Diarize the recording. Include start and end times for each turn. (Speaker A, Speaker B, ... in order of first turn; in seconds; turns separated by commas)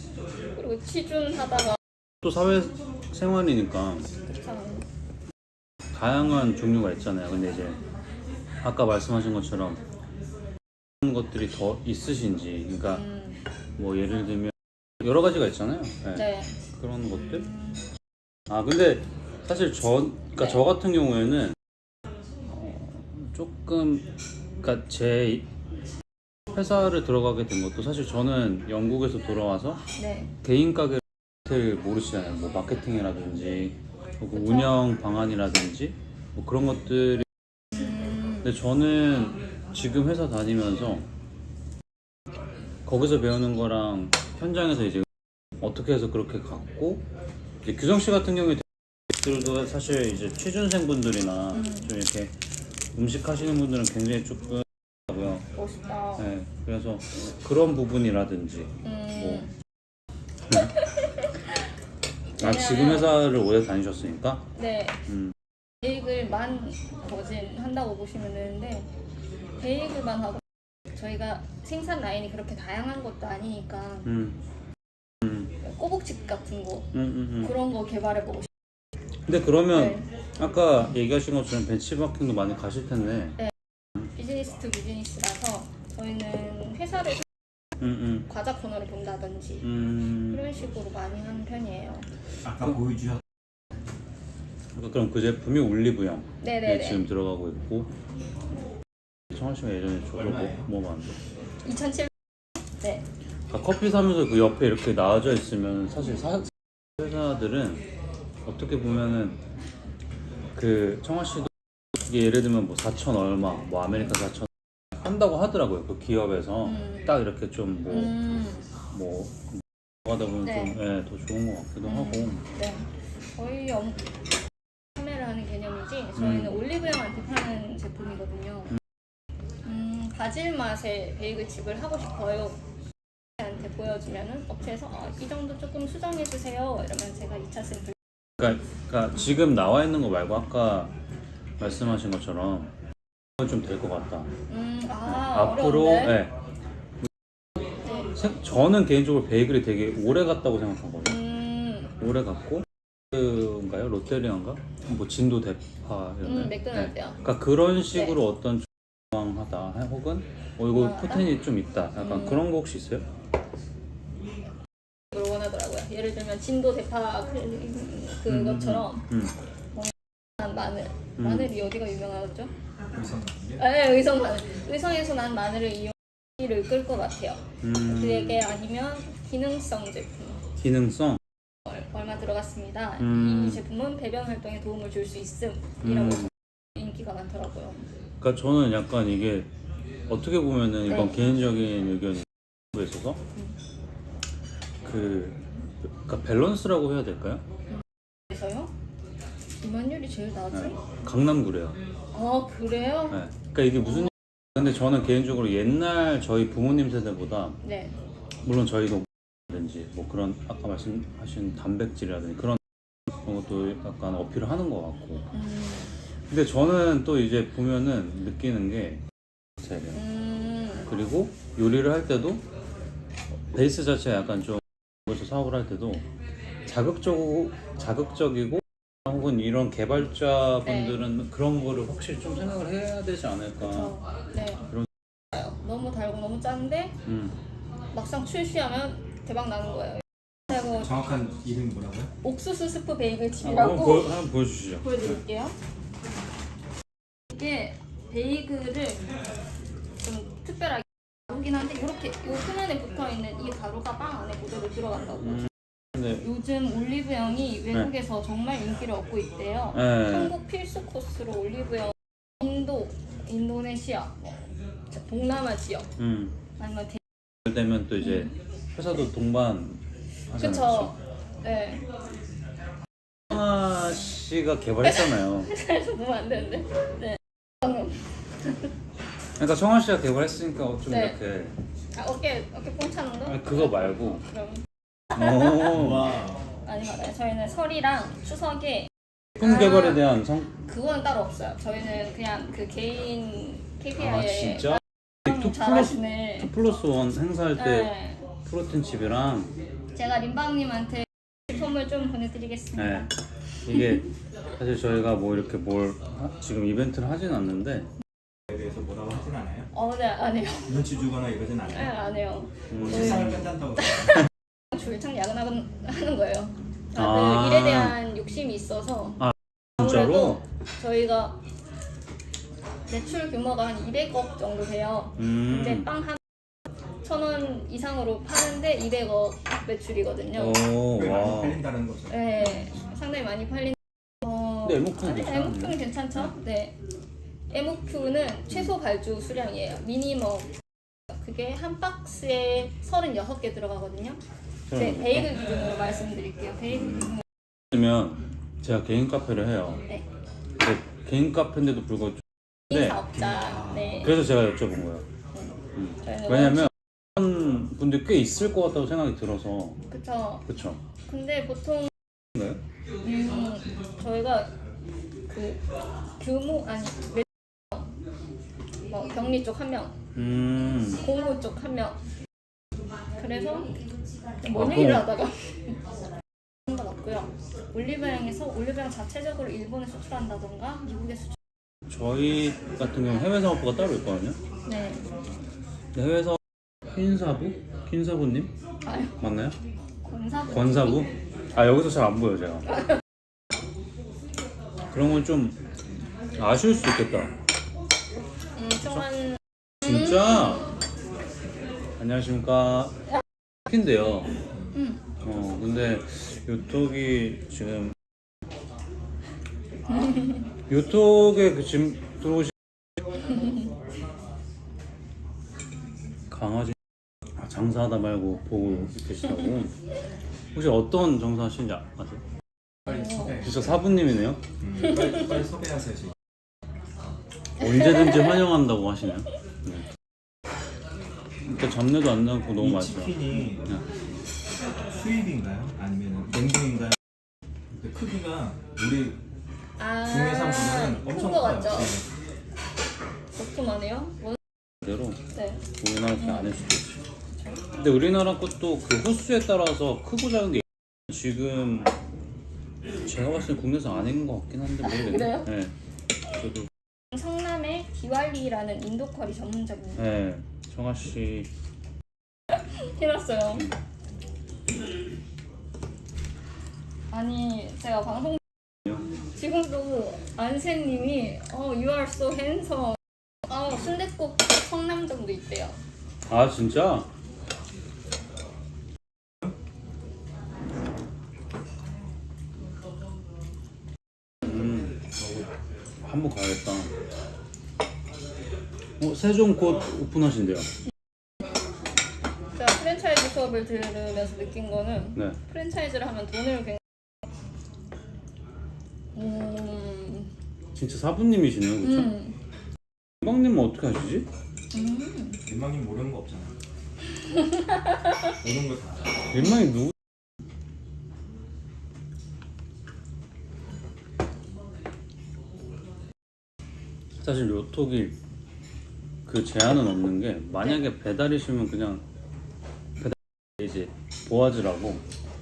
Speaker A: 0.5-1.8, Speaker B: 2.2-4.1, Speaker A: 4.2-4.8, Speaker B: 5.9-7.8, Speaker B: 8.6-9.8, Speaker B: 11.0-13.1, Speaker A: 12.9-13.4, Speaker B: 13.8-17.5, Speaker A: 16.2-16.6, Speaker A: 17.6-17.9, Speaker B: 18.5-21.6, Speaker B: 22.5-24.1, Speaker B: 24.6-25.5, Speaker B: 26.5-29.8, Speaker A: 29.9-30.3, Speaker B: 30.4-37.3, Speaker A: 34.4-34.8, Speaker A: 37.8-38.5, Speaker B: 38.4-41.0, Speaker B: 42.9-45.1, Speaker B: 45.6-47.0, Speaker B: 47.6-52.3, Speaker A: 51.5-51.9, Speaker B: 52.9-55.5, Speaker A: 55.5-56.3, Speaker B: 56.2-59.5, Speaker A: 58.8-59.5, Speaker A: 62.4-63.2, Speaker B: 62.4-64.4, Speaker A: 64.5-65.0, Speaker B: 65.1-65.3, Speaker A: 65.8-68.9, Speaker A: 69.6-70.4, Speaker A: 70.9-74.2, Speaker B: 74.0-74.4, Speaker A: 75.6-78.5, Speaker B: 76.9-77.5, Speaker B: 79.3-83.4, Speaker A: 79.7-80.0, Speaker A: 84.1-87.3, Speaker B: 87.8-88.3, Speaker A: 88.3-92.1, Speaker B: 89.6-90.5, Speaker C: 92.5-93.2, Speaker B: 94.8-97.9, Speaker A: 96.4-97.0, Speaker B: 99.3-101.2, Speaker C: 100.2-100.7, Speaker A: 101.6-102.1, Speaker B: 103.5-107.8, Speaker B: 108.5-109.4, Speaker B: 110.5-118.2, Speaker A: 116.8-117.1, Speaker A: 117.9-118.7, Speaker B: 118.9-122.4, Speaker A: 120.5-120.8, Speaker A: 121.8-124.1, Speaker A: 125.0-128.7, Speaker B: 126.2-126.6, Speaker A: 129.6-132.6, Speaker A: 133.4-137.9, Speaker B: 138.4-140.9, Speaker B: 141.6-142.7, Speaker B: 143.4-144.3, Speaker A: 144.5-146.3, Speaker B: 145.1-146.3, Speaker A: 147.8-148.1, Speaker B: 148.1-151.2, Speaker A: 151.1-151.9, Speaker B: 152.0-163.1, Speaker A: 156.2-157.2, Speaker A: 160.7-161.4, Speaker A: 162.0-162.4, Speaker A: 165.1-169.1, Speaker B: 168.3-169.3, Speaker A: 169.7-172.5, Speaker B: 171.2-171.5, Speaker C: 172.9-173.6, Speaker A: 173.6-180.4, Speaker B: 177.6-178.5, Speaker B: 180.6-181.2, Speaker A: 181.7-187.9, Speaker B: 183.0-183.6, Speaker B: 185.8-186.3, Speaker B: 188.2-189.5, Speaker B: 190.1-193.2, Speaker A: 190.9-191.3, Speaker B: 194.8-195.4, Speaker B: 195.9-197.4, Speaker A: 197.7-198.7, Speaker A: 199.6-200.8, Speaker B: 200.5-201.8, Speaker A: 202.1-203.2, Speaker B: 203.1-207.6, Speaker A: 207.6-207.9, Speaker B: 208.4-212.6, Speaker B: 213.2-215.2, Speaker A: 215.3-215.9, Speaker B: 216.3-219.0, Speaker B: 219.6-220.0, Speaker A: 219.9-220.9, Speaker B: 220.8-222.4, Speaker B: 223.5-226.0, Speaker B: 226.7-234.0, Speaker A: 230.7-231.1, Speaker A: 233.6-234.7, Speaker A: 235.3-236.9, Speaker B: 237.1-237.3, Speaker A: 237.9-240.0, Speaker C: 240.6-242.1, Speaker A: 242.2-244.2, Speaker B: 243.4-245.1, Speaker A: 244.8-245.6, Speaker A: 247.3-249.0, Speaker A: 250.0-255.5, Speaker A: 256.1-265.9, Speaker B: 259.7-260.3, Speaker B: 266.0-266.4, Speaker A: 266.6-267.0, Speaker B: 267.4-270.9, Speaker A: 270.3-271.8, Speaker B: 273.3-275.5, Speaker A: 275.1-278.1, Speaker B: 279.4-281.6, Speaker A: 280.9-281.2, Speaker A: 281.9-284.6, Speaker B: 283.3-284.2, Speaker B: 285.1-286.2, Speaker C: 285.8-286.4, Speaker A: 286.6-288.9, Speaker B: 289.4-290.5, Speaker A: 289.4-290.0, Speaker A: 290.7-296.5, Speaker B: 293.9-299.5, Speaker A: 297.6-298.3, Speaker A: 299.9-303.1, Speaker B: 302.8-303.1, Speaker B: 303.6-307.9, Speaker C: 308.5-309.7, Speaker A: 309.7-310.9, Speaker C: 310.7-312.0, Speaker A: 311.7-313.5, Speaker B: 312.7-313.5, Speaker C: 312.8-314.3, Speaker A: 314.7-319.2, Speaker B: 316.9-318.0, Speaker B: 319.2-320.4, Speaker A: 319.8-321.4, Speaker A: 322.9-326.2, Speaker B: 325.2-325.9, Speaker A: 327.0-330.8, Speaker B: 330.3-331.6, Speaker C: 330.8-332.7, Speaker A: 332.1-336.8, Speaker B: 334.6-336.3, Speaker A: 337.5-340.6, Speaker A: 341.2-344.2, Speaker B: 344.7-345.5, Speaker A: 344.7-347.2, Speaker B: 346.7-347.2, Speaker B: 347.7-349.8, Speaker B: 350.6-353.1, Speaker A: 352.7-354.2, Speaker C: 353.1-354.1, Speaker B: 354.0-355.1, Speaker A: 355.3-356.7, Speaker B: 355.8-359.8, Speaker A: 359.9-360.5, Speaker B: 360.5-360.8, Speaker A: 361.1-361.9, Speaker B: 362.4-362.6, Speaker A: 363.0-364.5, Speaker A: 365.3-365.6, Speaker A: 366.2-367.8, Speaker A: 368.9-369.9, Speaker B: 370.1-371.1, Speaker A: 370.9-372.0, Speaker A: 373.1-373.8, Speaker A: 374.4-375.9, Speaker B: 374.5-375.1, Speaker A: 376.7-381.4, Speaker B: 381.9-384.4, Speaker A: 384.7-385.1, Speaker B: 385.9-388.5, Speaker A: 388.9-389.1, Speaker B: 389.2-389.6, Speaker A: 390.0-391.1, Speaker B: 390.5-392.8, Speaker B: 394.9-395.6, Speaker B: 396.4-397.3, Speaker A: 398.6-399.4, Speaker B: 398.8-399.1, Speaker B: 399.8-400.7, Speaker B: 402.0-402.9, Speaker B: 403.7-404.4, Speaker A: 404.8-405.0, Speaker B: 405.2-407.9, Speaker B: 410.7-412.5, Speaker B: 416.3-416.8, Speaker B: 417.4-419.7, Speaker B: 420.5-422.2, Speaker C: 422.9-423.9, Speaker A: 422.9-423.4, Speaker B: 423.4-424.4, Speaker C: 424.6-426.1, Speaker B: 427.6-429.9, Speaker B: 431.4-433.8, Speaker C: 432.6-433.8, Speaker C: 434.9-436.9, Speaker C: 437.7-439.2, Speaker A: 439.8-442.0, Speaker C: 440.0-442.1, Speaker A: 443.3-444.4, Speaker B: 444.8-445.2, Speaker A: 445.4-445.6, Speaker B: 445.8-447.0, Speaker A: 446.2-446.6, Speaker B: 447.7-451.9, Speaker B: 453.0-455.7, Speaker A: 454.8-455.5, Speaker B: 456.4-456.7, Speaker A: 457.1-460.0, Speaker B: 460.0-461.5, Speaker A: 462.5-463.7, Speaker A: 467.1-468.4, Speaker A: 469.3-475.8, Speaker B: 476.3-477.1, Speaker B: 484.4-485.0, Speaker C: 485.2-485.5, Speaker B: 486.0-486.9, Speaker B: 489.0-490.7, Speaker A: 492.5-496.8, Speaker A: 499.1-500.3, Speaker B: 500.8-502.2, Speaker A: 501.8-502.4, Speaker B: 503.2-504.3, Speaker A: 504.7-505.4, Speaker C: 505.4-506.5, Speaker C: 508.4-509.1, Speaker B: 509.3-509.9, Speaker B: 517.2-518.2, Speaker B: 519.3-522.0, Speaker B: 523.0-525.0